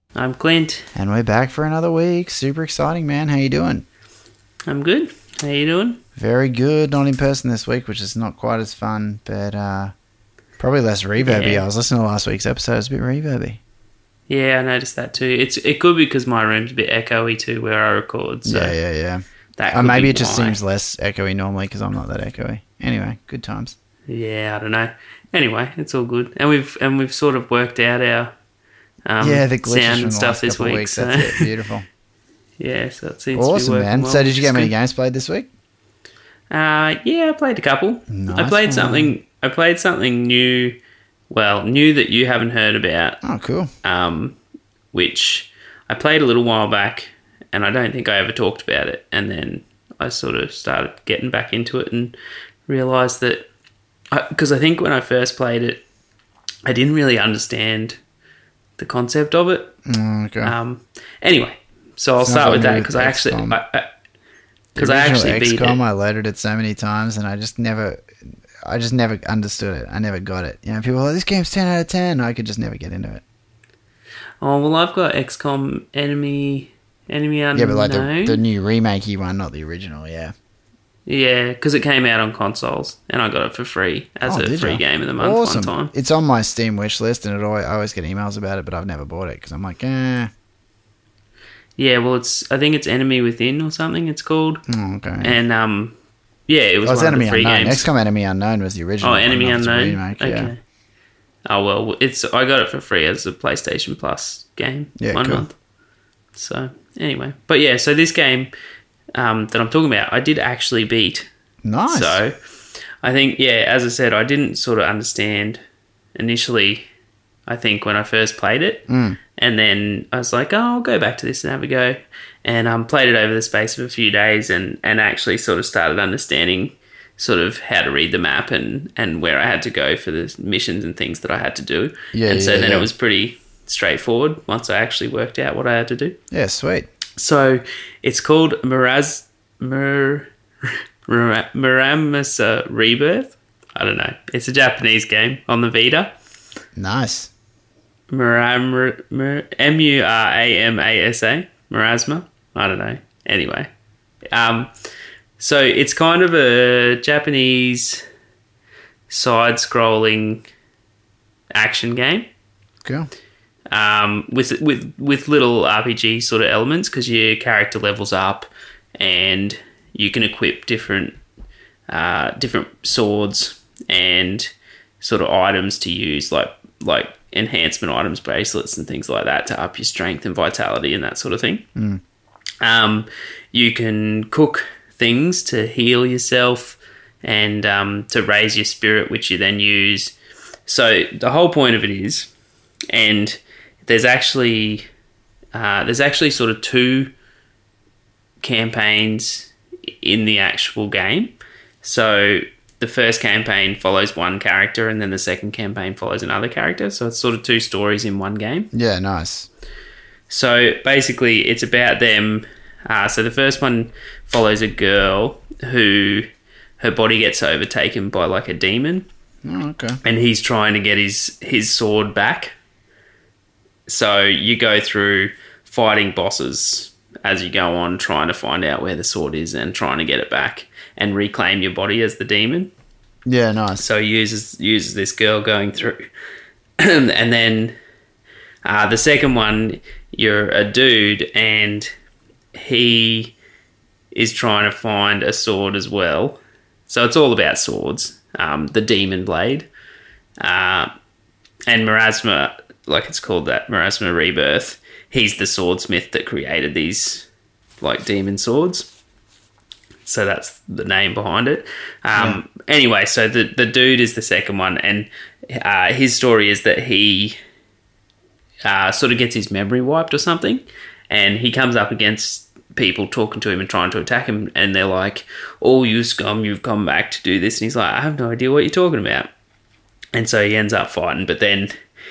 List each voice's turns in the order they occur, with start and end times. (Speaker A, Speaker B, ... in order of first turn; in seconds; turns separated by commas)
Speaker A: 0.1-0.9, Speaker B: 0.9-3.9, Speaker A: 4.7-6.0, Speaker B: 6.2-9.9, Speaker B: 10.6-13.6, Speaker A: 11.2-11.6, Speaker A: 14.3-18.8, Speaker B: 18.5-23.8, Speaker A: 19.6-20.6, Speaker A: 24.1-28.3, Speaker A: 29.1-31.5, Speaker B: 29.2-31.9, Speaker A: 32.6-34.7, Speaker B: 33.3-35.5, Speaker A: 36.5-40.8, Speaker B: 38.1-39.1, Speaker A: 41.3-43.2, Speaker B: 43.2-43.7, Speaker A: 43.8-44.4, Speaker A: 44.9-52.1, Speaker A: 52.7-53.5, Speaker A: 54.1-55.8, Speaker A: 56.7-58.0, Speaker A: 58.8-59.7, Speaker B: 59.9-60.5, Speaker A: 60.4-63.9, Speaker B: 62.2-63.6, Speaker B: 64.8-73.2, Speaker A: 64.8-65.8, Speaker A: 74.4-78.4, Speaker B: 77.5-80.3, Speaker A: 81.1-85.9, Speaker B: 84.2-90.3, Speaker A: 91.8-94.6, Speaker B: 94.7-95.4, Speaker A: 95.2-96.0, Speaker A: 96.5-97.9, Speaker B: 96.8-100.5, Speaker A: 99.0-100.6, Speaker A: 101.5-105.5, Speaker B: 105.0-105.5, Speaker A: 106.3-108.5, Speaker A: 109.2-111.3, Speaker B: 111.7-112.2, Speaker A: 111.9-112.3, Speaker A: 113.0-115.6, Speaker A: 116.2-116.8, Speaker A: 117.5-136.2, Speaker B: 118.9-119.2, Speaker B: 132.1-132.9, Speaker B: 136.3-136.9, Speaker A: 137.2-146.2, Speaker B: 146.8-147.3, Speaker A: 148.1-153.7, Speaker A: 154.3-154.7, Speaker A: 155.4-158.0, Speaker A: 159.1-160.4, Speaker A: 161.5-162.3, Speaker A: 163.7-171.2, Speaker A: 171.9-181.7, Speaker B: 181.8-182.0, Speaker A: 182.6-190.1, Speaker A: 190.7-192.3, Speaker A: 192.9-194.9, Speaker A: 195.5-197.1, Speaker A: 198.4-208.7, Speaker B: 208.7-209.5, Speaker A: 210.3-216.3, Speaker A: 216.8-219.1, Speaker B: 219.4-220.0, Speaker A: 220.0-222.5, Speaker A: 223.9-232.7, Speaker B: 233.3-233.8, Speaker A: 233.8-236.1, Speaker A: 236.8-237.8, Speaker A: 238.6-241.9, Speaker A: 242.5-243.3, Speaker A: 244.1-249.7, Speaker A: 250.4-250.9, Speaker A: 251.7-257.3, Speaker A: 257.8-258.9, Speaker A: 260.1-267.4, Speaker B: 262.1-262.4, Speaker A: 268.6-279.3, Speaker A: 280.1-281.7